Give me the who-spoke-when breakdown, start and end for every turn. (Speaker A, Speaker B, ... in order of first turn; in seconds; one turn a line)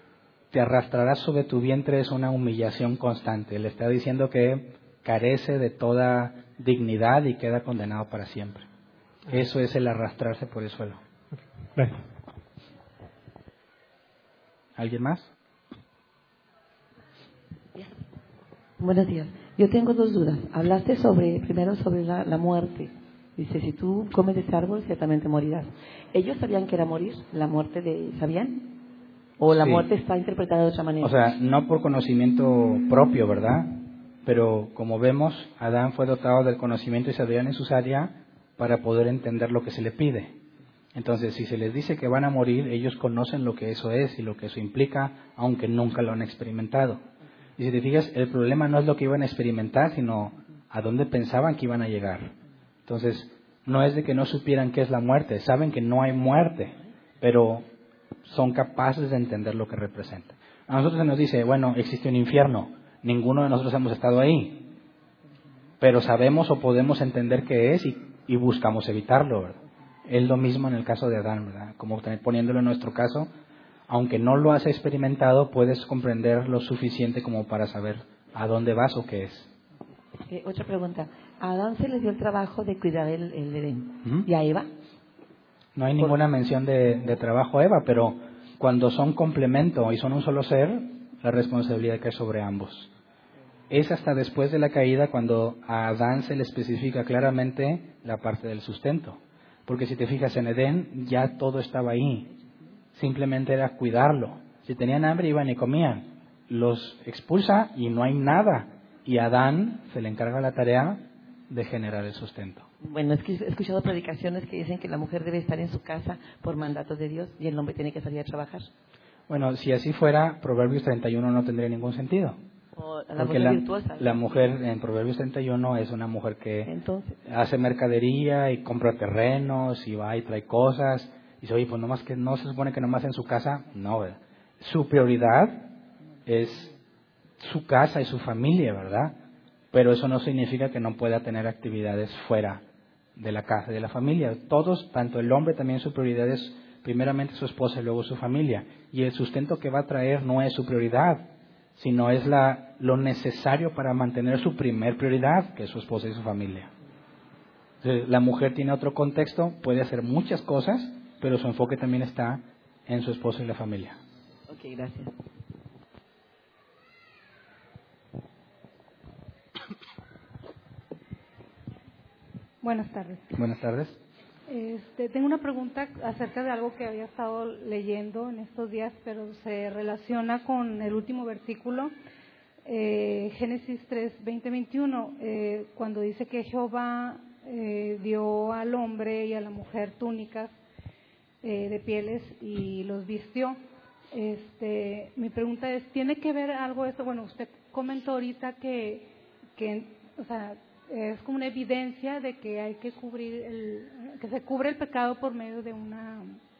Speaker A: 0.5-8.7
Speaker A: 9.3-11.0
Speaker A: 14.8-15.3
Speaker B: 18.8-28.8
Speaker B: 29.4-31.1
Speaker A: 29.5-29.8
Speaker A: 31.0-40.4
Speaker A: 40.9-47.0
Speaker A: 47.6-52.3
Speaker A: 52.9-57.7
Speaker A: 58.2-64.7
Speaker A: 65.8-73.3
Speaker A: 73.9-79.5
Speaker B: 80.3-84.7
Speaker A: 85.8-92.9
Speaker A: 93.7-102.3
Speaker A: 102.9-112.7
Speaker B: 112.8-118.7
Speaker A: 119.3-122.4
Speaker B: 122.7-124.2
Speaker A: 123.2-126.7
Speaker B: 126.7-127.2
Speaker A: 127.2-135.7
Speaker A: 136.2-136.7
Speaker A: 137.4-139.2
Speaker A: 139.7-142.6
Speaker A: 143.2-156.7
Speaker A: 157.8-164.0
Speaker B: 164.5-165.1
Speaker C: 172.6-173.2
Speaker A: 173.3-174.0
Speaker C: 174.5-181.9
Speaker C: 182.6-190.6
Speaker C: 191.4-193.6
Speaker C: 194.1-206.4